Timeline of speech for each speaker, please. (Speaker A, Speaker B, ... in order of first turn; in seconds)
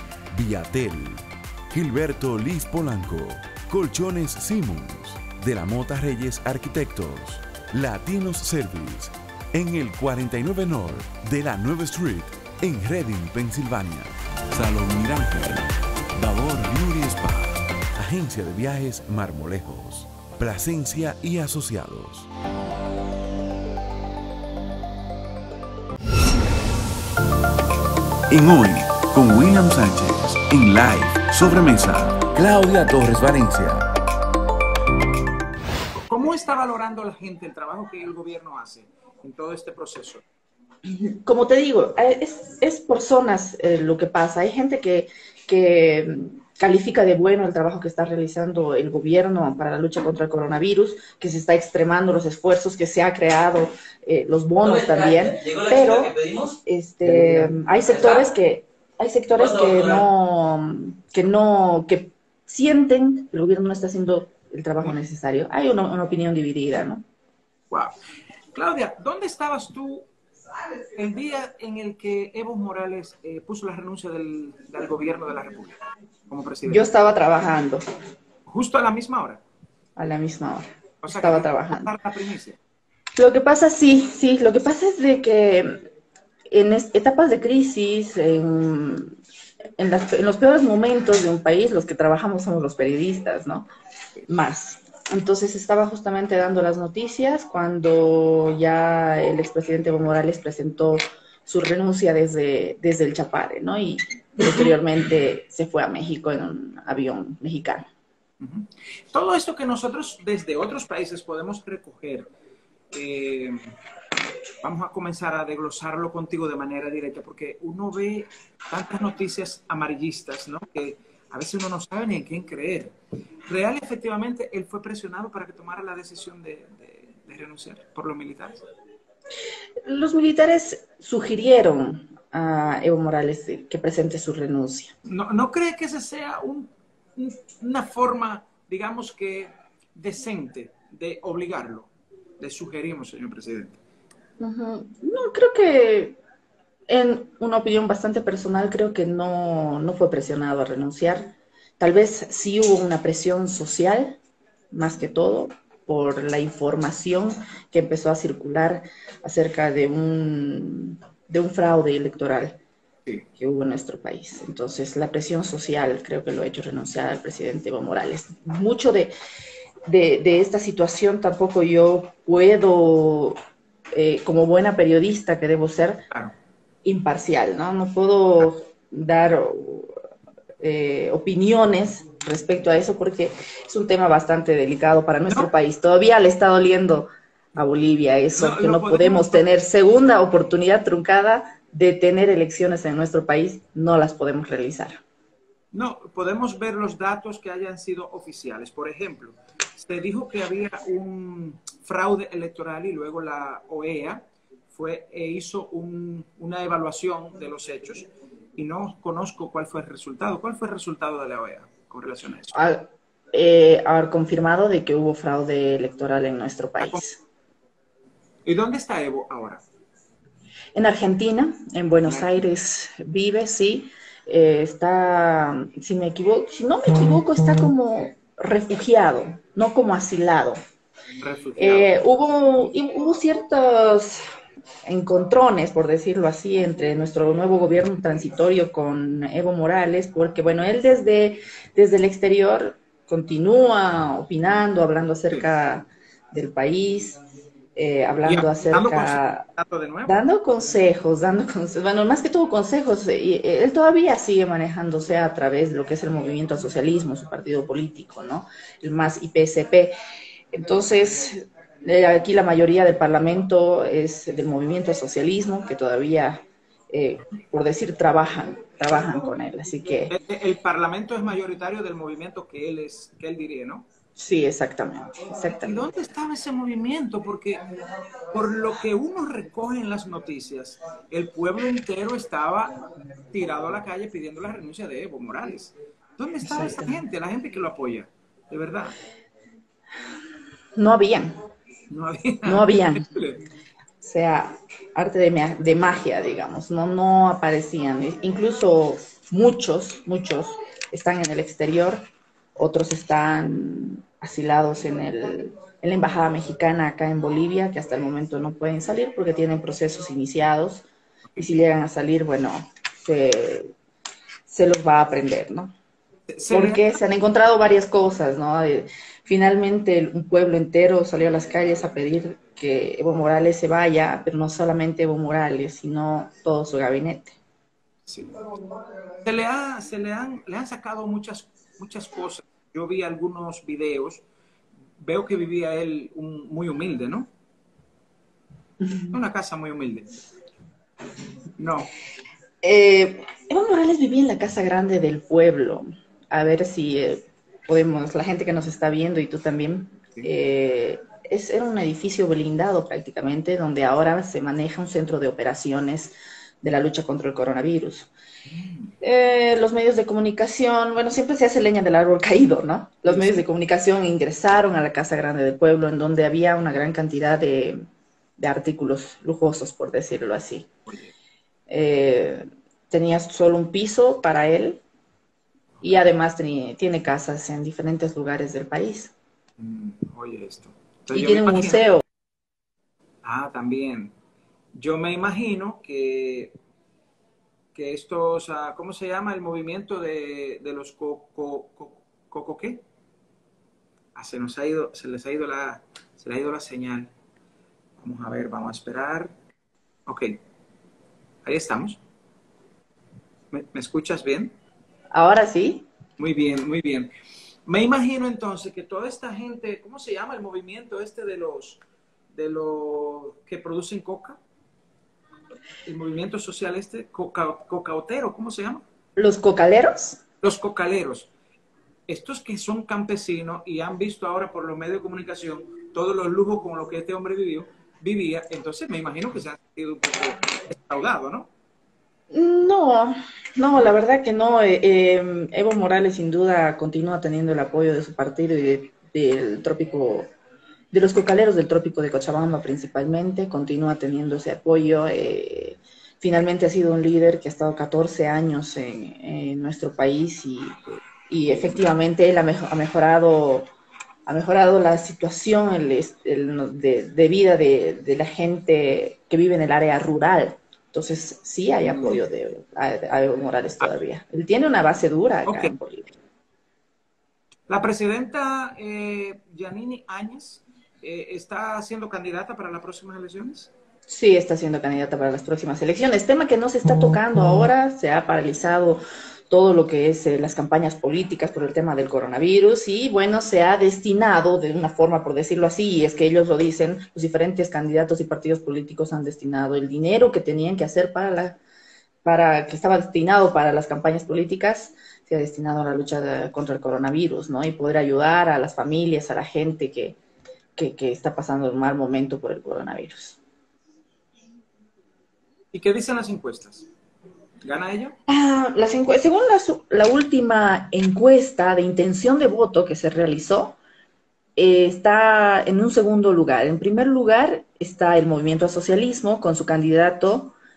Speaker A: 0.3-22.3, 28.3-33.9
Speaker B: 35.9-40.2, 68.5-70.1, 71.0-76.9, 78.5-79.4, 81.0-82.6, 108.4-112.3, 112.9-113.7, 114.6-122.9, 123.5-128.6, 135.1-143.8, 188.3-189.5, 195.7-212.6, 218.4-219.6, 231.2-231.9, 248.3-250.2, 270.1-273.9, 275.6-277.7, 278.3-288.9, 291.9-293.4, 316.3-316.9, 328.1-328.3, 329.2-334.2, 335.0-337.3, 339.0-340.2, 341.6-341.9, 358.5-358.9, 363.1-363.4, 379.6-381.9, 383.2-384.1, 384.7-386.5, 387.8-392.8, 394.1-397.1, 398.0-399.3, 400.1-400.4, 401.4-402.0, 403.5-404.6, 406.2-407.1, 407.7-411.8, 412.3-414.4, 415.9-418.8, 420.4-421.3, 422.1-431.5, 461.8-462.2, 465.5-465.7, 467.7-473.7, 505.7-506.9, 507.6-508.1
Speaker C: 40.9-67.0, 76.7-77.8, 80.0-81.9, 83.2-85.8, 86.5-89.2, 89.8-93.7, 94.3-107.9, 129.8-134.9, 144.4-146.2, 146.9-154.2, 154.7-162.6, 163.4-169.1, 169.9-173.4, 173.9-176.1, 176.8-180.0, 180.6-195.0, 212.5-217.2, 220.8-230.6, 231.6-234.2, 234.8-247.2, 247.8-249.4, 250.1-260.0, 260.5-270.1, 274.2-275.9, 286.5-286.9, 290.8-291.4, 292.4-293.1, 294.0-310.9, 311.4-313.7, 314.5-315.7, 316.5-327.4, 342.6-358.1, 359.0-367.9, 368.4-370.7, 371.7-374.8, 375.8-379.1, 381.1-382.0, 405.1-405.9, 419.2-420.2, 432.3-440.3, 440.9-450.8, 451.3-453.7, 454.3-466.1, 474.1-491.6, 492.2-500.2, 500.8-503.4, 508.3-513.8, 514.6-520.5